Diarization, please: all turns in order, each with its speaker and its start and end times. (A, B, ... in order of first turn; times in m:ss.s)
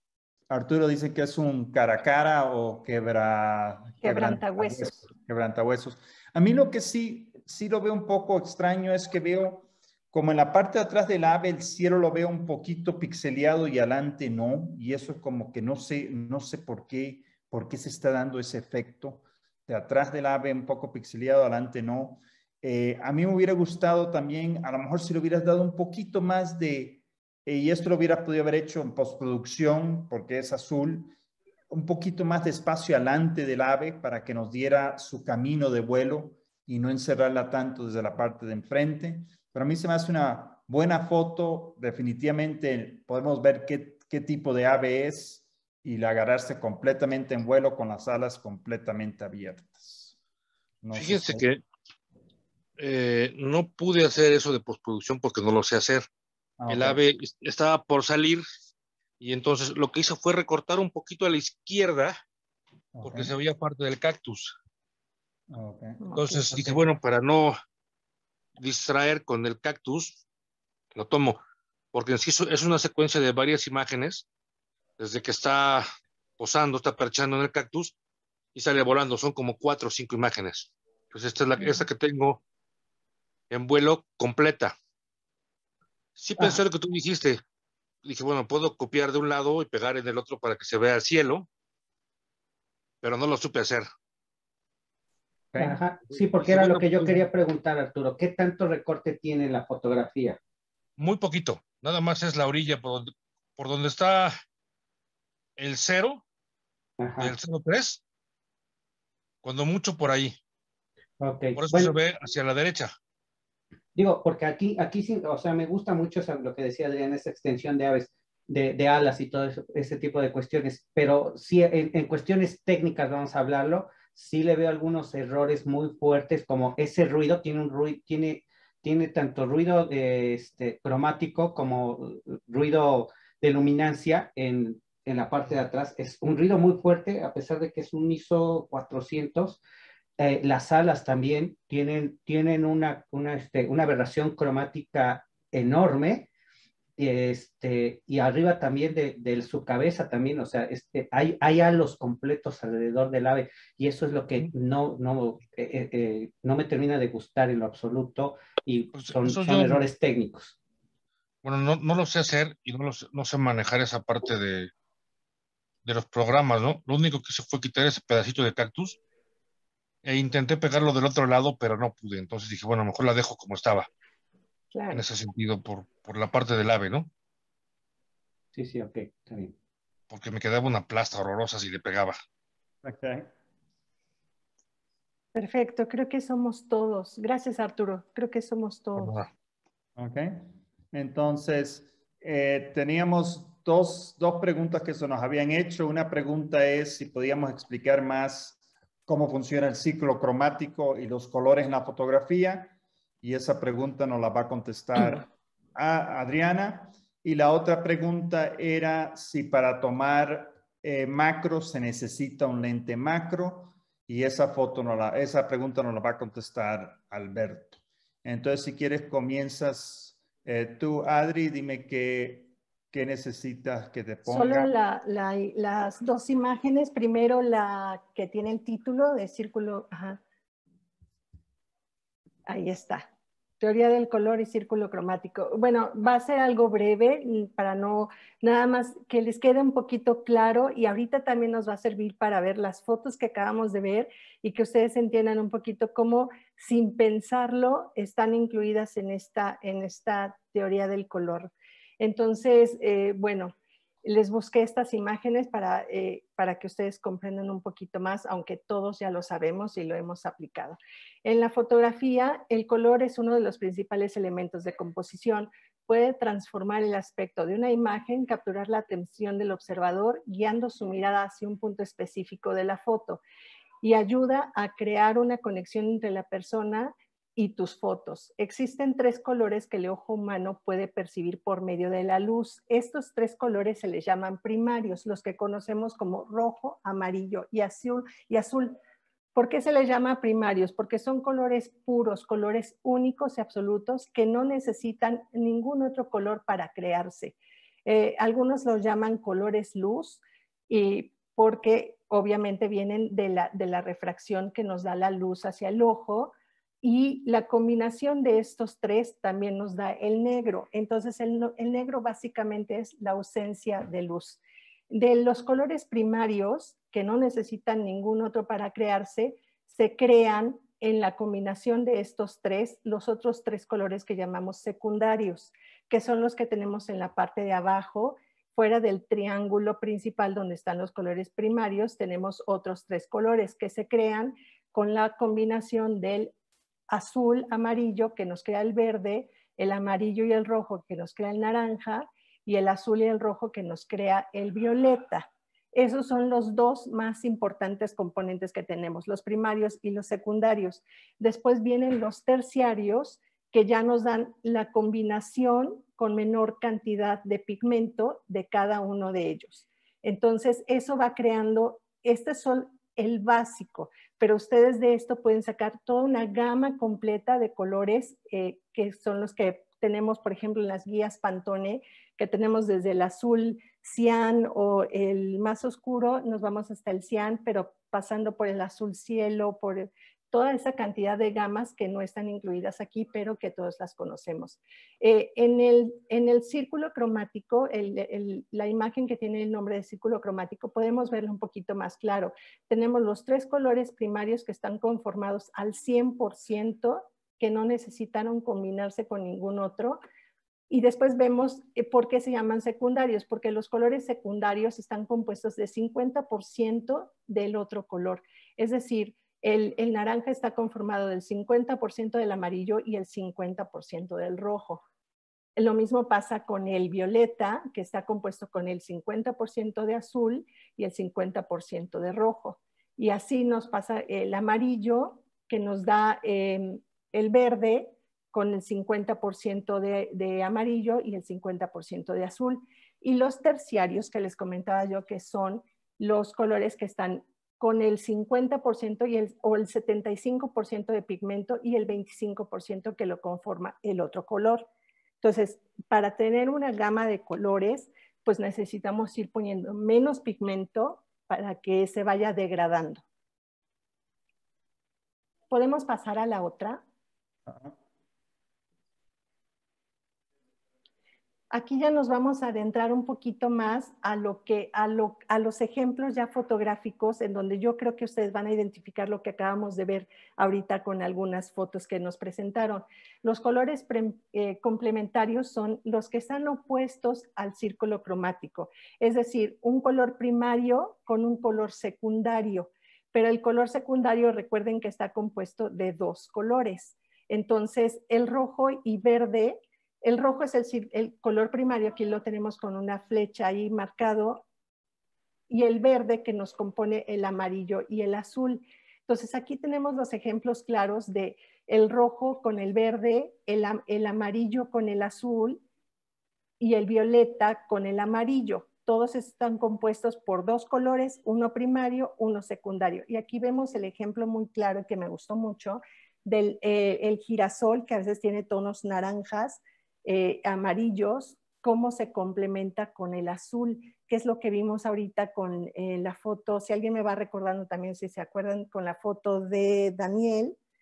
0:00.5-0:31.1 A
0:04.0-0:05.0 B
0:31.7-0:50.1 A
0:50.8-0:51.4 A
0:50.9-0:51.6 C
0:52.8-0:56.1 C
0:56.6-0:57.0 A
0:56.7-0:58.4 C
0:59.2-1:02.2 C
1:02.9-1:03.3 A
1:03.0-1:04.5 C
1:05.5-1:06.7 A
1:06.0-1:06.5 B
1:06.2-1:07.6 C
1:08.6-1:10.2 C
1:10.9-1:11.4 C
1:11.9-1:14.2 C
1:15.0-1:15.9 C
1:16.4-1:17.9 C
1:18.5-1:22.4 C
1:23.5-1:24.8 C
1:26.2-1:27.4 C
1:28.0-1:31.5 C
1:33.0-1:33.9 C
1:35.6-1:40.4 D
1:36.2-1:37.2 C
1:41.0-1:44.4 C
1:45.6-1:46.2 C
1:47.0-1:47.3 D
1:47.2-1:48.0 C
1:49.4-1:50.4 C
1:51.2-1:51.9 D
1:51.5-1:52.9 C
1:54.0-2:19.6 D
2:20.2-2:26.3 D
2:27.0-2:40.6 D
2:38.9-2:39.9 C
2:41.4-2:44.7 C
2:45.8-2:49.0 C
2:50.0-2:53.9 C
2:54.7-2:55.0 B
2:54.9-2:57.1 C
2:58.5-2:59.5 D
3:00.1-3:02.2 C
3:02.8-3:03.3 A
3:05.3-3:09.1 B
3:09.0-3:09.3 C
3:10.0-3:44.7 A
3:44.2-3:50.2 B
3:52.5-3:53.0 B
3:53.6-4:33.2 B
4:33.8-4:48.8 B
4:49.3-5:36.3 B
5:36.9-6:40.0 B
6:40.7-6:54.8 B
6:55.6-7:24.7 B
7:25.2-7:33.0 B
7:35.5-7:36.8 B
7:41.5-8:14.4 B
8:15.5-8:25.6 B
8:26.6-8:50.6 B